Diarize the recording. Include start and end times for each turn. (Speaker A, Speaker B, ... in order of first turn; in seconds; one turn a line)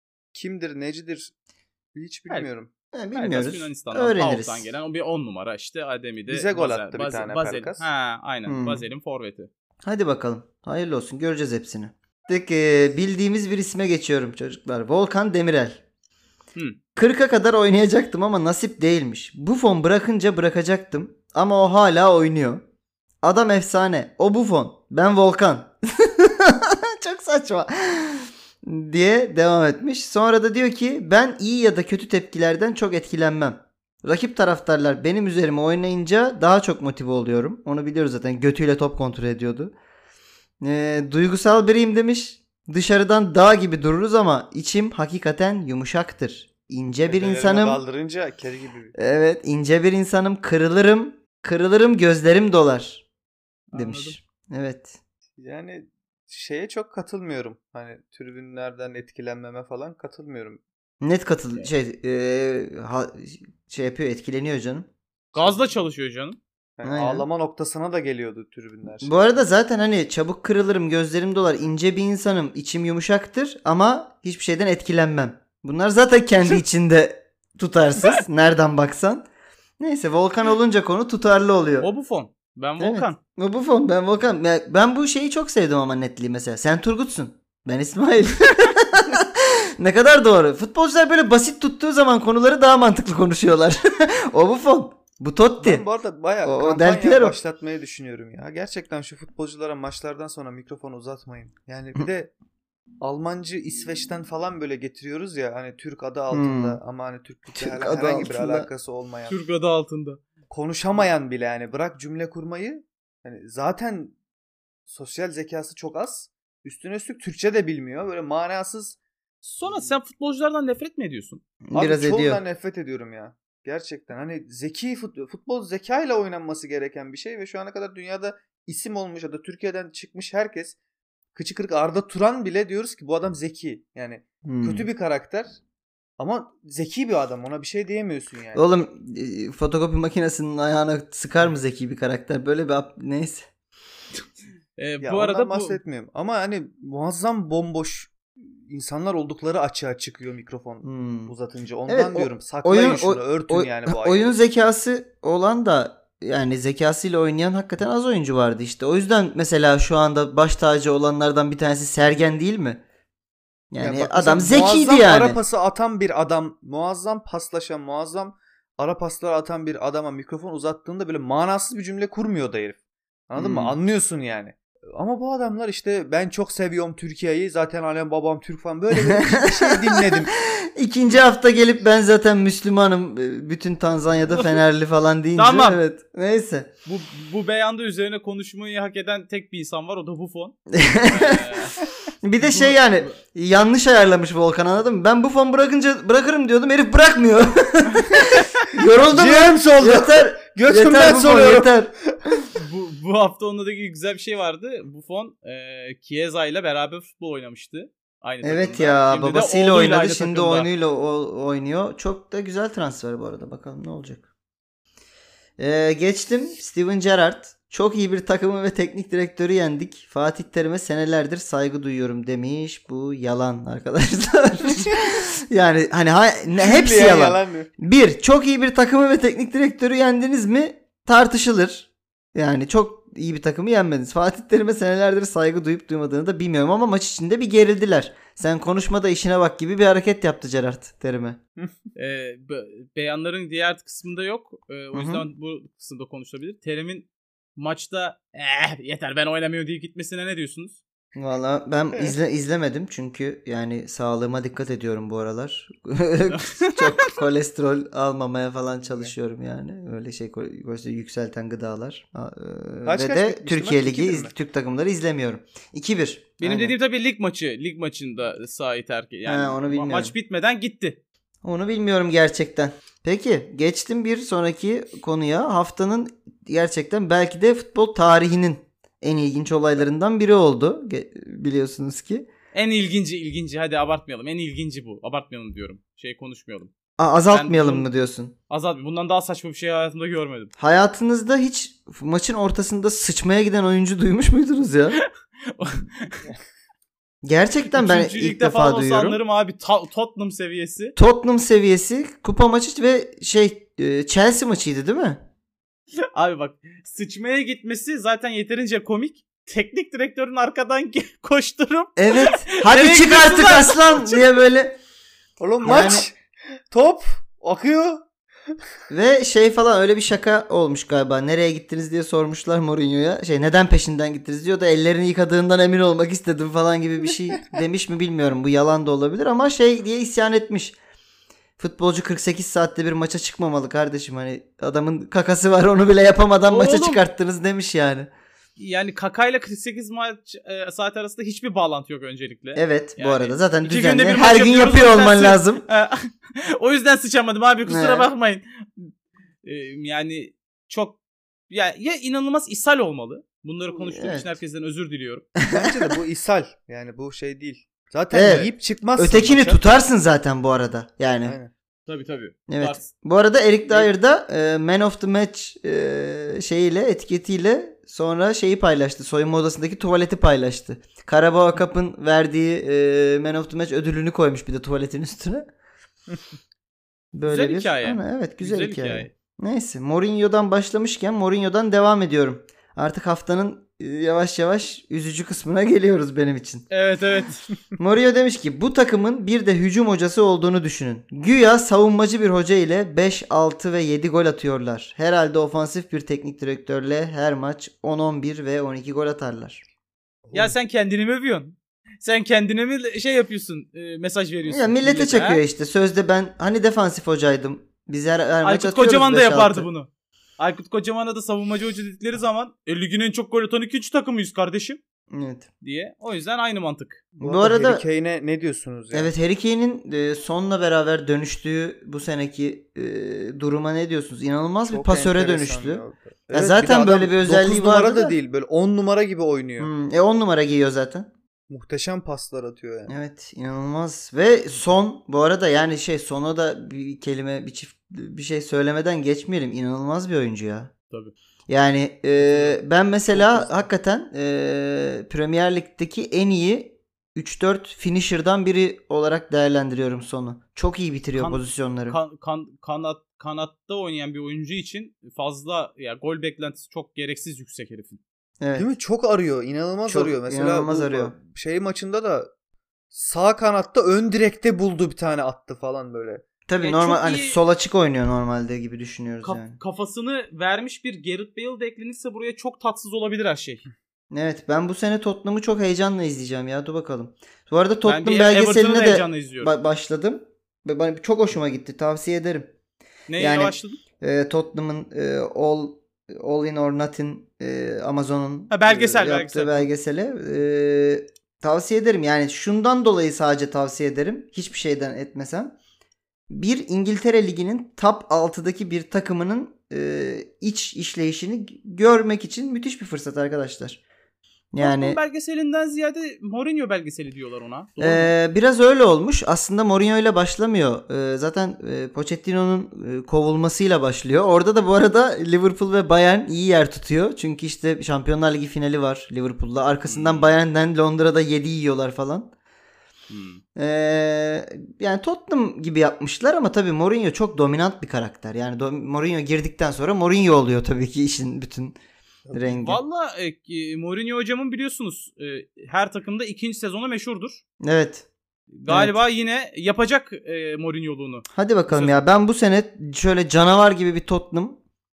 Speaker A: 0.3-1.3
Speaker A: 1.9-2.7
Speaker B: 2.9-4.7
Speaker C: 3.1-9.5
Speaker A: 6.3-7.8
Speaker B: 8.5-8.8
Speaker B: 9.8-15.8
Speaker B: 16.9-22.6
Speaker B: 23.2-39.7
Speaker B: 40.6-47.8
Speaker A: 47.1-48.9
Speaker B: 49.0-53.0
Speaker C: 53.7-54.2
Speaker B: 53.7-55.0
Speaker A: 55.4-60.6
Speaker B: 61.0-64.9
Speaker C: 65.3-66.4
Speaker A: 66.8-69.2
Speaker B: 66.8-67.2
Speaker B: 69.0-79.3
Speaker B: 79.8-81.9
Speaker C: 81.8-83.2
Speaker B: 82.8-95.8
Speaker A: 95.6-102.3
Speaker B: 96.4-97.4
Speaker A: 103.0-109.4
Speaker B: 106.3-106.8
Speaker B: 107.5-108.7
Speaker C: 109.3-110.2
Speaker A: 110.5-114.2
Speaker A: 114.9-119.0
Speaker C: 119.4-121.4
Speaker B: 121.7-122.4
Speaker A: 121.8-130.8
Speaker A: 131.3-135.5
Speaker B: 134.4-134.9
Speaker A: 136.2-138.6
Speaker B: 138.5-143.5
Speaker C: 144.8-145.8
Speaker A: 145.0-154.4
Speaker B: 150.8-151.3
Speaker B: 151.9-162.8
Speaker B: 163.7-165.4
Speaker A: 163.8-180.3
Speaker B: 173.4-173.8
Speaker B: 179.1-186.7
Speaker C: 185.4-185.8
Speaker C: 186.9-191.8
Speaker B: 190.7-191.5
Speaker B: 192.2-201.9
Speaker C: 192.4-193.1
Speaker A: 199.1-202.1
Speaker C: 202.6-210.7
Speaker B: 208.4-214.2
Speaker B: 215.6-241.4
Speaker A: 226.6-227.7
Speaker C: 242.0-250.8
Speaker B: 244.9-245.2
Speaker B: 251.2-266.7
Speaker C: 256.3-256.9
Speaker A: 262.9-264.3
Speaker C: 266.4-271.0
Speaker B: 269.3-270.1
Speaker B: 271.4-282.3
Speaker C: 282.5-286.7
Speaker B: 287.0-288.3
Speaker C: 287.3-287.9
Speaker C: 288.5-290.5
Speaker B: 290.6-295.0
Speaker C: 295.0-296.3
Speaker B: 297.2-299.2
Speaker C: 297.7-300.9
Speaker B: 301.0-305.2
Speaker C: 306.1-314.2
Speaker B: 312.0-314.8
Speaker A: 315.4-316.2
Speaker B: 315.6-316.1
Speaker A: 316.7-318.1
Speaker B: 318.9-330.8
Speaker A: 327.1-327.4
Speaker B: 331.6-338.1
Speaker C: 336.5-337.0
Speaker C: 338.6-348.9
Speaker B: 342.6-345.6
Speaker B: 347.7-348.1
Speaker C: 349.4-351.0
Speaker C: 351.5-355.3
Speaker B: 353.8-354.3
Speaker B: 355.4-355.9
Speaker A: 355.5-359.8
Speaker B: 358.1-361.4
Speaker C: 358.2-358.5
Speaker A: 361.3-361.5
Speaker C: 361.9-362.9
Speaker B: 362.5-375.4
Speaker B: 377.1-386.7
Speaker C: 377.3-379.1
Speaker C: 386.7-387.4
Speaker B: 387.8-399.6
Speaker A: 400.3-400.5
Speaker C: 400.3-405.4
Speaker B: 404.5-409.7
Speaker C: 408.4-409.9
Speaker C: 410.4-414.8
Speaker B: 415.1-415.5
Speaker C: 415.6-417.0
Speaker A: 417.2-419.1
Speaker B: 417.2-417.8
Speaker B: 418.9-428.1
Speaker A: 424.7-429.7
Speaker B: 429.6-431.1
Speaker A: 431.5-432.9
Speaker B: 432.9-440.7
Speaker B: 441.5-452.0
Speaker A: 443.1-443.5
Speaker C: 451.2-458.0
Speaker B: 458.4-458.7
Speaker A: 458.6-462.3
Speaker B: 459.9-461.1
Speaker A: 462.9-466.2
Speaker B: 466.5-469.6
Speaker C: 466.6-467.4
Speaker C: 469.2-473.6
Speaker B: 474.1-482.5
Speaker C: 477.9-479.5
Speaker C: 483.1-483.8
Speaker B: 483.2-495.6
Speaker C: 488.5-489.7
Speaker B: 496.3-503.8
Speaker B: 504.5-505.0
Speaker C: 504.6-508.1
Speaker B: 507.8-522.3
Speaker C: 519.9-520.4
Speaker C: 523.1-523.4
Speaker B: 523.6-531.8
Speaker B: 532.3-532.8
Speaker C: 532.5-537.4
Speaker B: 537.6-538.1
Speaker C: 538.5-542.0
Speaker B: 538.7-539.0
Speaker B: 541.3-544.6